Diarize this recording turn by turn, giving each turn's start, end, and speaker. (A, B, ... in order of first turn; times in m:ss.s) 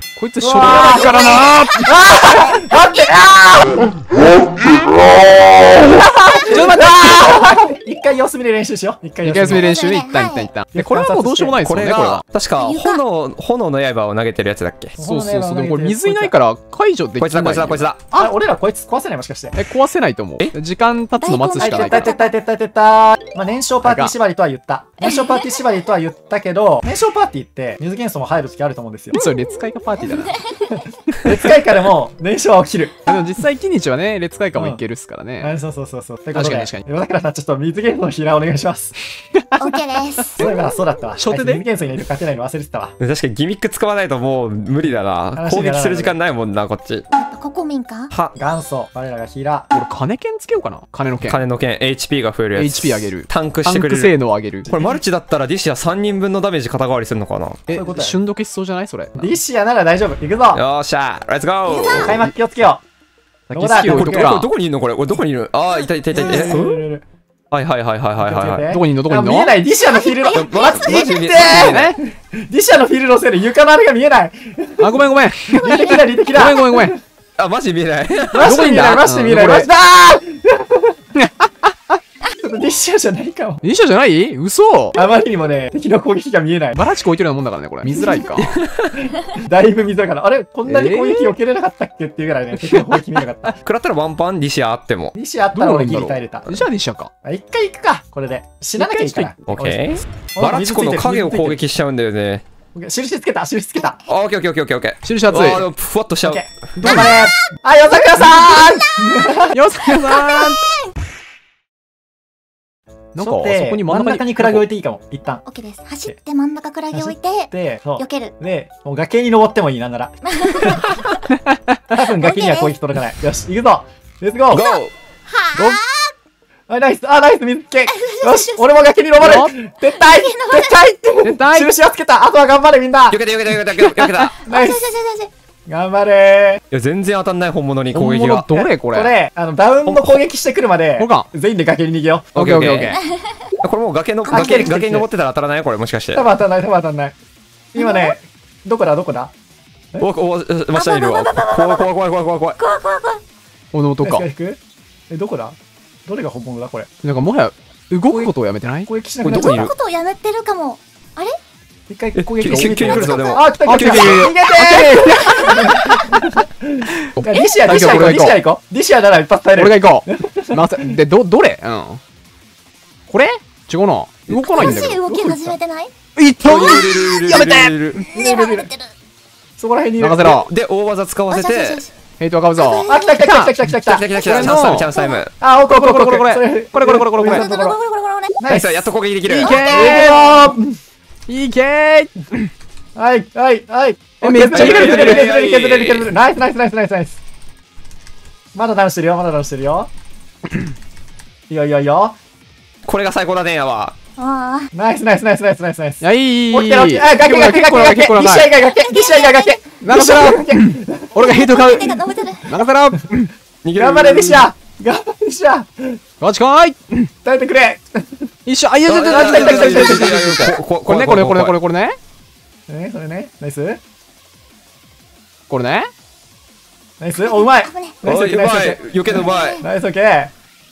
0:00.2-0:02.0 A
0:00.4-0:04.0 B
0:00.6-0:03.2 C
0:05.8-0:09.7 B
0:06.5-0:07.6 A
0:09.2-0:12.2 A
0:09.5-0:10.5 C
0:10.7-0:11.6 B
0:11.6-0:15.0 D
0:12.6-0:13.0 C
0:15.0-0:16.3 B
0:15.0-0:18.3 A
0:17.2-0:18.0 D
0:18.1-0:19.6 B
0:19.6-0:22.1 A
0:21.2-0:22.3 C
0:21.6-0:29.2 B
0:23.8-0:24.1 A
0:25.0-0:25.6 C
0:29.1-0:30.4 A
0:30.1-0:30.8 C
0:31.2-0:32.9 B
0:33.0-0:35.5 A
0:35.4-0:38.9 B
0:36.3-0:36.8 A
0:39.3-0:40.6 A
0:39.6-0:40.5 C
0:40.4-0:42.9 B
0:41.2-0:41.6 A
0:43.0-0:47.0 D
0:45.3-0:46.2 B
0:47.1-0:48.1 C
0:48.3-0:49.7 B
0:49.7-0:51.4 A
0:51.2-0:54.1 D
0:52.6-0:54.7 A
0:54.6-0:57.6 D
0:57.7-0:59.4 A
0:57.7-0:58.2 B
0:59.2-1:00.6 B
1:00.5-1:02.3 D
1:01.7-1:02.1 C
1:02.0-1:02.8 B
1:03.5-1:04.5 A
1:03.5-1:04.4 B
1:03.7-1:06.8 D
1:06.1-1:07.0 B
1:06.4-1:06.7 A
1:07.5-1:08.7 D
1:08.2-1:17.0 B
1:08.7-1:09.5 A
1:09.8-1:11.5 C
1:10.3-1:11.9 D
1:11.5-1:12.0 A
1:14.8-1:17.0 A
1:15.6-1:15.9 C
1:17.4-1:18.6 D
1:18.3-1:21.0 B
1:18.3-1:19.7 A
1:21.2-1:22.0 A
1:22.3-1:23.6 B
1:23.6-1:25.0 A
1:24.9-1:26.8 B
1:26.8-1:28.6 A
1:28.4-1:29.1 D
1:29.2-1:33.6 B
1:30.6-1:31.4 A
1:32.6-1:33.2 A
1:33.6-1:35.1 D
1:35.1-1:36.6 B
1:35.5-1:37.1 A
1:37.2-1:41.6 B
1:38.8-1:39.4 A
1:39.5-1:42.4 D
1:42.7-1:44.0 B
1:44.0-1:46.4 D
1:45.0-1:45.6 A
1:46.2-1:49.6 B
1:46.8-1:47.2 A
1:48.2-1:50.9 C
1:49.5-1:50.6 A
1:53.1-1:54.6 A
1:53.2-1:55.4 B
1:55.4-1:58.3 C
1:56.9-2:00.8 B
2:00.2-2:01.0 C
2:01.5-2:01.8 A
2:01.9-2:04.6 B
2:02.2-2:02.7 C
2:04.5-2:04.9 D
2:04.5-2:06.1 C
2:06.7-2:13.2 B
2:07.9-2:08.7 C
2:09.2-2:09.5 A
2:09.9-2:10.7 C
2:11.2-2:11.7 A
2:13.1-2:14.4 D
2:13.8-2:14.2 A
2:14.4-2:15.3 C
2:14.5-2:14.9 B
2:15.7-2:16.6 B
2:16.7-2:18.5 D
2:17.9-2:19.1 A
2:18.6-2:22.3 B
2:19.9-2:20.1 A
2:21.0-2:21.3 A
2:22.3-2:23.0 D
2:22.3-2:23.0 A
2:22.9-2:23.5 C
2:23.6-2:26.3 D
2:24.2-2:24.7 C
2:24.3-2:25.0 B
2:26.1-2:27.2 B
2:27.7-2:29.3 B
2:27.7-2:28.2 C
2:30.0-2:32.6 D
2:30.7-2:31.9 C
2:32.6-2:33.2 C
2:33.7-2:34.2 A
2:34.0-2:34.6 B
2:35.1-2:36.9 B
2:37.0-2:38.9 A
2:38.1-2:38.3 B
2:38.8-2:39.7 B
2:39.2-2:39.7 D
2:39.3-2:41.4 C
2:41.9-2:50.9 B
2:42.2-2:44.3 D
2:42.4-2:43.1 A
2:43.0-2:43.4 C
2:43.6-2:46.2 A
2:44.6-2:46.0 C
2:47.0-2:48.4 A
2:47.3-2:48.0 C
2:49.6-2:52.0 A
2:53.1-2:55.3 A
2:54.3-2:55.9 C
2:54.6-2:55.5 B
2:56.2-2:57.7 A
2:56.4-2:58.0 D
2:56.8-2:57.4 C
2:58.0-2:58.9 C
2:58.1-2:58.7 B
2:59.6-3:00.3 B
3:00.0-3:00.5 A
3:00.2-3:01.8 D
3:01.3-3:01.9 C
3:02.2-3:03.5 A
3:02.6-3:03.3 C
3:02.9-3:04.1 B
3:03.8-3:05.3 D
3:04.1-3:05.2 C
3:04.2-3:04.9 A
3:05.4-3:07.8 B
3:05.7-3:07.5 A
3:07.2-3:08.4 C
3:08.4-3:10.8 B
3:08.5-3:09.7 D
3:09.4-3:10.2 A
3:09.4-3:10.2 C
3:11.3-3:12.5 A
3:13.0-3:17.2 B
3:14.2-3:15.4 A
3:14.5-3:16.1 D
3:18.5-3:19.9 B
3:21.5-3:22.2 B
3:22.8-3:23.9 D
3:24.2-3:24.7 C
3:24.7-3:31.2 B
3:26.0-3:28.5 A
3:28.6-3:29.6 C
3:29.8-3:33.3 A
3:31.2-3:32.5 C
3:33.6-3:34.5 D
3:33.8-3:36.0 B
3:36.2-3:37.1 A
3:37.2-3:38.3 B
3:38.4-3:42.0 A
3:38.9-3:41.6 D
3:39.0-3:40.5 B
3:42.7-3:43.8 B
3:45.5-3:45.9 A
3:47.0-3:50.3 B
3:47.2-3:48.0 C
3:48.0-3:49.6 D
3:49.2-3:49.6 C